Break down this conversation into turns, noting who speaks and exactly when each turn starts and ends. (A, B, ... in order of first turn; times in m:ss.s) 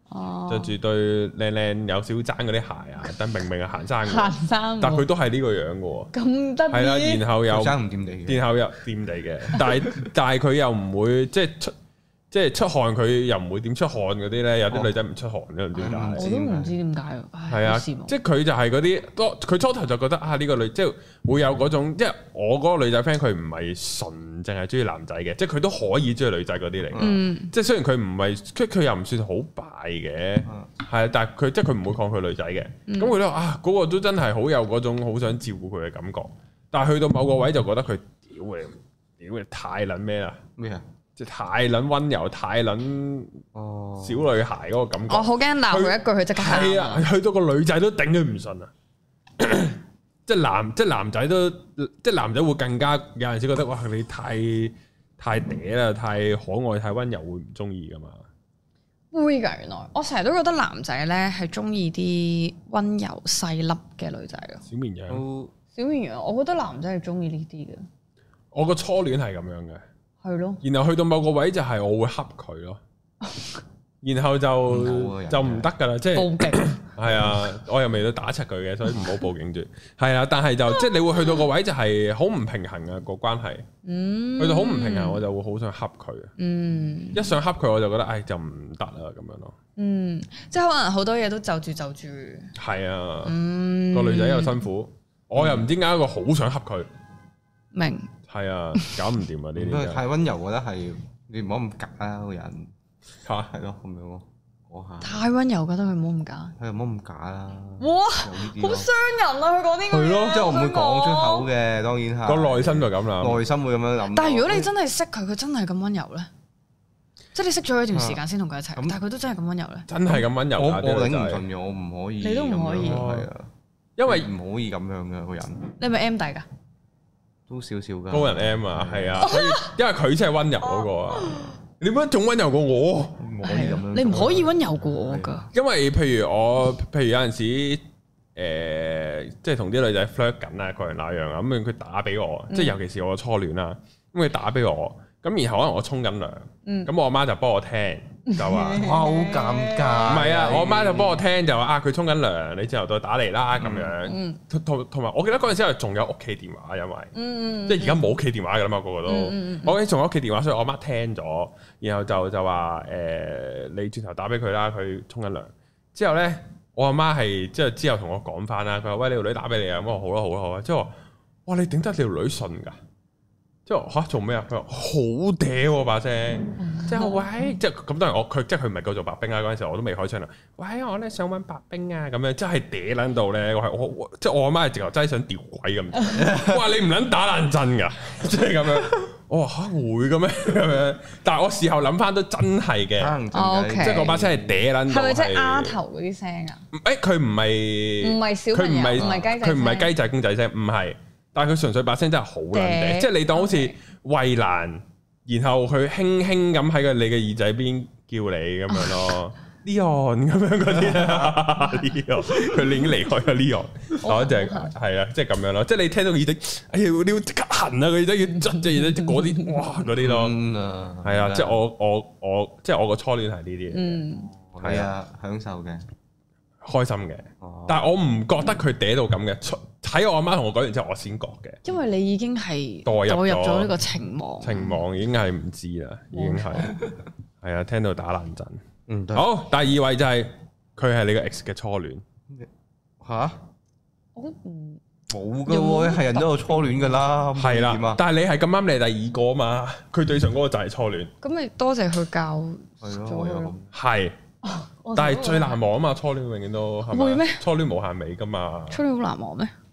0:00.1-0:00.7 A
0:00.5-0:06.1 B
0:04.0-0:05.1 A
0:06.1-0:07.2 A
0:06.7-0:11.7 B
0:07.5-0:08.5 C
0:12.3-0:16.3 B
0:15.8-0:16.7 C
0:16.2-0:18.1 A
0:17.5-0:40.4 B
0:26.9-0:27.2 C
0:27.0-0:27.5 A
0:32.9-0:33.2 A
0:40.6-0:40.8 C
0:41.2-0:43.4 B
0:43.5-0:44.3 C
0:44.0-0:48.7 B
0:45.1-0:47.1 A
0:49.4-0:58.2 B
0:59.1-1:04.6 A
1:04.7-1:05.2 B
1:05.1-1:05.5 C
1:05.8-1:07.8 A
1:08.5-1:09.8 B
1:10.2-1:10.6 A
1:10.6-1:12.8 B
1:14.0-1:23.7 B
1:14.7-1:15.7 C
1:16.1-1:16.8 A
1:23.8-1:25.2 A
1:24.4-1:26.3 B
1:26.4-1:27.3 A
1:27.1-1:29.6 B
1:29.8-1:32.5 A
1:32.6-1:33.4 B
1:33.2-1:34.6 A
1:33.9-1:36.9 B
1:35.4-1:35.6 C
1:37.7-1:38.1 A
1:38.3-1:40.0 B
1:39.6-1:42.7 C
1:43.2-1:43.5 B
1:43.5-1:45.2 C
1:45.0-1:46.6 A
1:46.6-1:48.9 C
1:47.8-1:51.5 A
1:49.9-1:50.4 B
1:50.2-1:54.7 C
1:52.2-1:53.4 B
1:54.1-1:56.3 A
1:57.3-1:59.9 A
1:57.9-1:58.2 C
1:59.9-2:01.4 B
2:00.1-2:03.5 C
2:02.2-2:03.1 A
2:02.8-2:03.3 B
2:04.0-2:04.3 B
2:04.1-2:05.7 C
2:05.8-2:06.5 A
2:07.5-2:09.3 C
2:08.1-2:13.2 B
2:09.2-2:09.7 A
2:10.8-2:11.4 A
2:13.2-2:15.3 C
2:13.4-2:15.5 A
2:15.5-2:17.8 B
2:18.4-2:28.9 B
2:22.5-2:22.8 A
2:26.6-2:26.9 A
2:28.3-2:30.3 A
2:28.7-2:31.2 C
2:30.0-2:37.1 B
2:33.6-2:34.0 C
2:34.0-2:34.4 A
2:37.2-2:38.0 A
2:37.7-2:50.9 B
2:39.0-2:39.8 A
2:51.5-2:52.8 B
2:53.7-3:13.2 B
2:56.6-2:57.5 A
3:06.1-3:06.7 C
3:13.0-3:14.6 C
3:13.3-3:14.2 A
3:13.8-3:15.8 B
3:14.9-3:16.6 A
3:16.7-3:40.4 B
3:18.0-3:19.9 A
3:19.0-3:19.3 C
3:22.5-3:23.7 A
3:30.7-3:31.4 C
3:34.0-3:34.7 A
3:38.4-3:39.6 A
3:40.0-3:41.6 C
3:41.0-3:44.0 B
3:43.7-3:44.3 A
3:44.5-3:45.8 C
3:44.6-3:44.9 B
3:46.6-3:51.6 B
3:47.4-3:47.8 C
3:51.6-3:54.8 A
3:52.9-3:53.7 B
3:54.4-3:56.7 B
3:56.1-3:56.7 A
3:57.4-3:58.6 B
3:58.9-3:59.3 C
3:59.1-4:02.0 B
4:03.0-4:03.4 C
4:04.2-4:04.8 A
4:05.1-4:08.0 C
4:05.5-4:07.0 A
4:07.4-4:11.1 B
4:11.2-4:13.6 A
4:12.8-4:13.7 C
4:13.7-4:14.2 B
4:14.4-4:15.6 A
4:15.0-4:18.8 B
4:16.9-4:17.4 A
4:18.7-4:19.5 A